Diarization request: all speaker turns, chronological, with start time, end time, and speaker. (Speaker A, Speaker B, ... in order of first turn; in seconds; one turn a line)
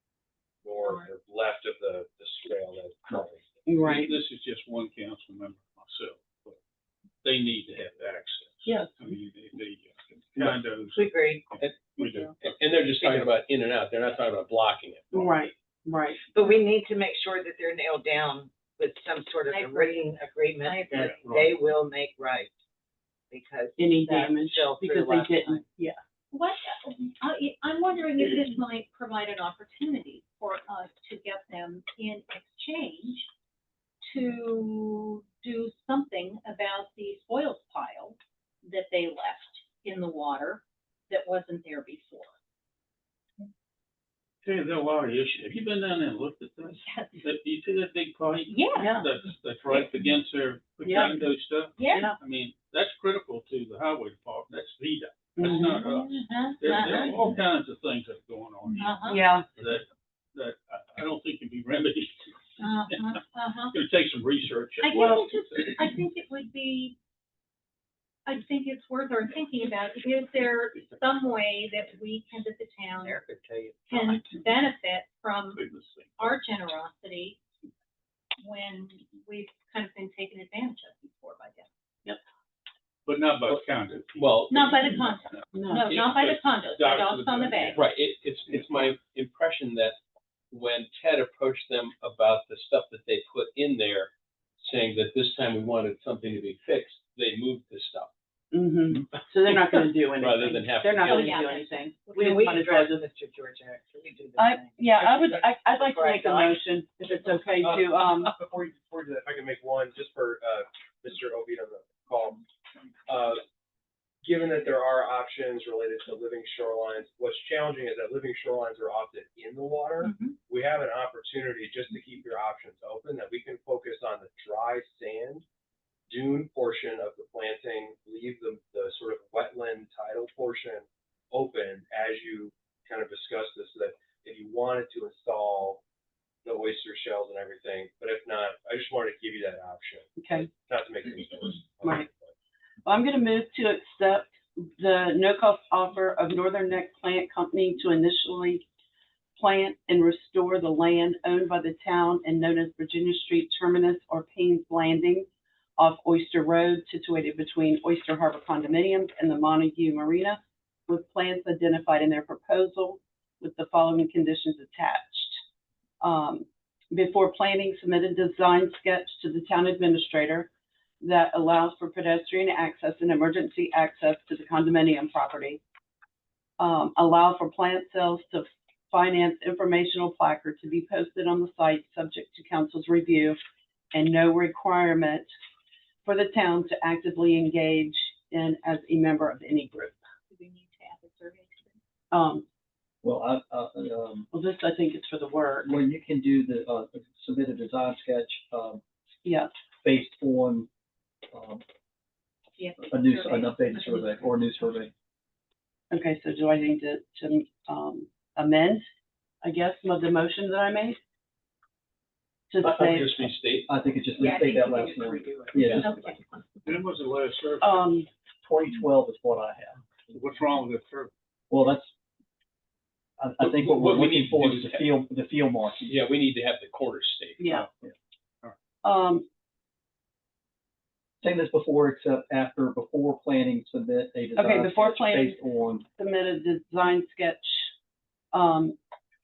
Speaker A: 0.6-3.5
Speaker B: 0.8-1.1
Speaker C: 3.7-4.2
Speaker D: 3.8-6.6
Speaker D: 7.2-12.6
Speaker C: 8.7-8.9
Speaker E: 10.9-11.5
Speaker F: 11.6-15.0
Speaker C: 15.1-16.2
Speaker E: 16.3-22.5
Speaker B: 19.5-21.2
Speaker D: 21.0-21.6
Speaker E: 23.3-25.6
Speaker C: 23.8-26.0
Speaker B: 26.3-33.3
Speaker B: 34.1-42.3
Speaker D: 44.4-62.3
Speaker B: 46.8-47.2
Speaker B: 48.5-49.0
Speaker C: 48.8-49.1
Speaker C: 50.8-51.2
Speaker B: 51.8-52.1
Speaker C: 51.9-52.2
Speaker C: 55.4-55.8
Speaker B: 55.5-57.2
Speaker B: 58.8-59.2
Speaker C: 59.1-59.5
Speaker B: 62.6-63.8
Speaker D: 63.7-65.7
Speaker B: 64.8-67.0
Speaker B: 68.2-73.2
Speaker E: 73.0-74.2
Speaker B: 73.9-75.6
Speaker D: 75.5-76.3
Speaker B: 76.2-77.4
Speaker B: 78.4-81.7
Speaker D: 83.1-87.9
Speaker F: 84.2-84.5
Speaker B: 84.5-87.8
Speaker C: 85.5-85.8
Speaker F: 87.8-90.0
Speaker F: 90.5-98.1
Speaker C: 98.5-103.0
Speaker F: 100.2-101.3
Speaker B: 101.0-102.2
Speaker E: 102.1-106.6
Speaker C: 104.4-108.3
Speaker A: 107.6-112.5
Speaker A: 113.1-113.4
Speaker A: 114.2-125.4
Speaker B: 120.0-120.3
Speaker A: 126.1-135.8
Speaker A: 136.4-142.3
Speaker C: 140.2-140.5
Speaker C: 142.8-148.6
Speaker C: 149.4-165.4
Speaker C: 166.0-170.5
Speaker C: 171.0-175.6
Speaker C: 176.6-183.4
Speaker C: 183.9-185.3
Speaker C: 186.1-190.0
Speaker B: 190.3-191.8
Speaker C: 192.1-192.4
Speaker G: 193.0-194.3
Speaker C: 194.3-195.7
Speaker G: 195.7-198.8
Speaker G: 199.8-200.7
Speaker G: 201.3-201.6
Speaker B: 202.6-204.4
Speaker G: 202.9-204.9
Speaker C: 205.9-208.9
Speaker C: 209.4-211.0
Speaker C: 212.5-213.2
Speaker F: 212.6-213.7
Speaker G: 213.7-216.1
Speaker E: 214.2-215.6
Speaker B: 215.8-216.2
Speaker D: 216.6-217.8
Speaker C: 217.6-218.1
Speaker G: 218.4-219.8
Speaker D: 220.1-221.1
Speaker G: 221.5-221.9
Speaker G: 223.2-225.9
Speaker F: 223.4-224.9
Speaker F: 225.9-227.4
Speaker C: 227.4-227.7
Speaker C: 228.8-229.2
Speaker G: 231.2-235.8
Speaker C: 234.4-235.4
Speaker C: 236.0-237.7
Speaker C: 238.3-238.8